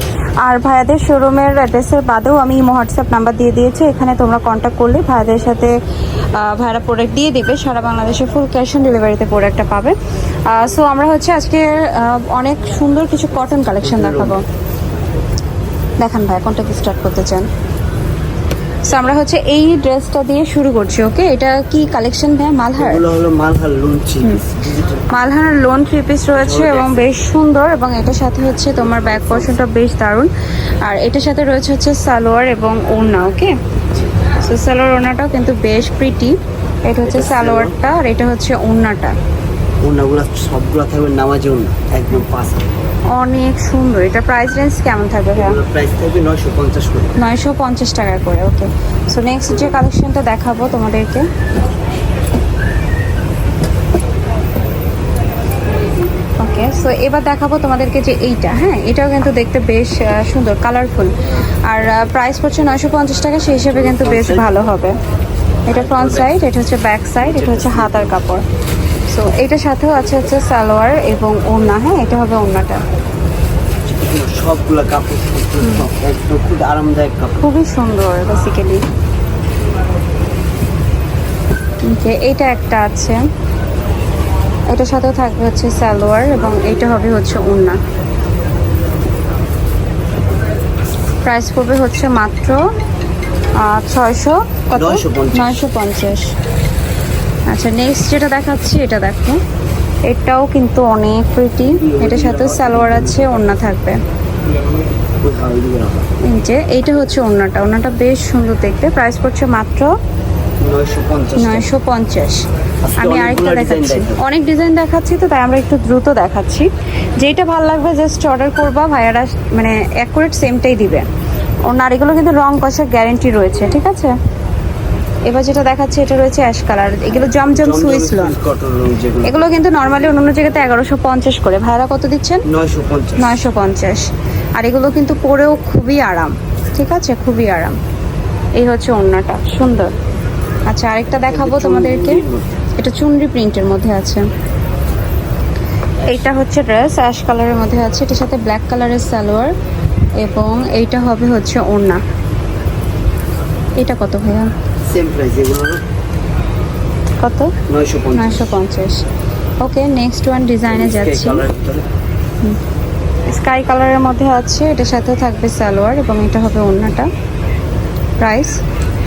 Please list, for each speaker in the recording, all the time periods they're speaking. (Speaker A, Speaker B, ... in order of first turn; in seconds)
Speaker A: 0.4-5.7, 6.3-10.0, 10.5-14.4, 16.0-17.5, 18.9-23.0, 25.1-30.3, 30.8-33.5, 34.4-39.2, 43.1-45.6, 47.2-51.3, 56.4-61.1, 61.7-65.0, 65.7-68.5, 69.1-72.8, 75.6-75.9, 77.4-78.8, 81.8-83.2, 84.7-87.8, 91.2-92.6, 93.6-96.3, 97.5-99.4, 100.1-104.0, 106.2-109.9, 111.4-112.5, 113.0-116.7, 117.2-121.0, 121.7-124.1, 125.3-128.4, 129.2-132.4, 133.2-137.8, 138.6-139.9, 140.7-142.2, 142.8-144.2, 146.1-149.5, 150.2-152.0, 153.8-154.5, 157.2-157.5, 158.2-159.0, 159.6-161.4, 163.3-167.1, 168.2-168.6
Speaker B: 13.8-14.4, 22.8-25.1, 26.3-27.1, 28.8-29.5, 37.0-37.8, 39.8-42.7, 45.4-47.2, 63.7-64.5, 65.7-66.4, 67.2-68.2, 73.8-77.4, 94.7-95.6, 101.6-103.5, 105.2-106.1, 110.6-111.7, 112.8-114.2, 127.5-129.7, 132.5-133.4, 141.3-142.6, 154.9-155.8, 157.7-158.6, 160.7-161.8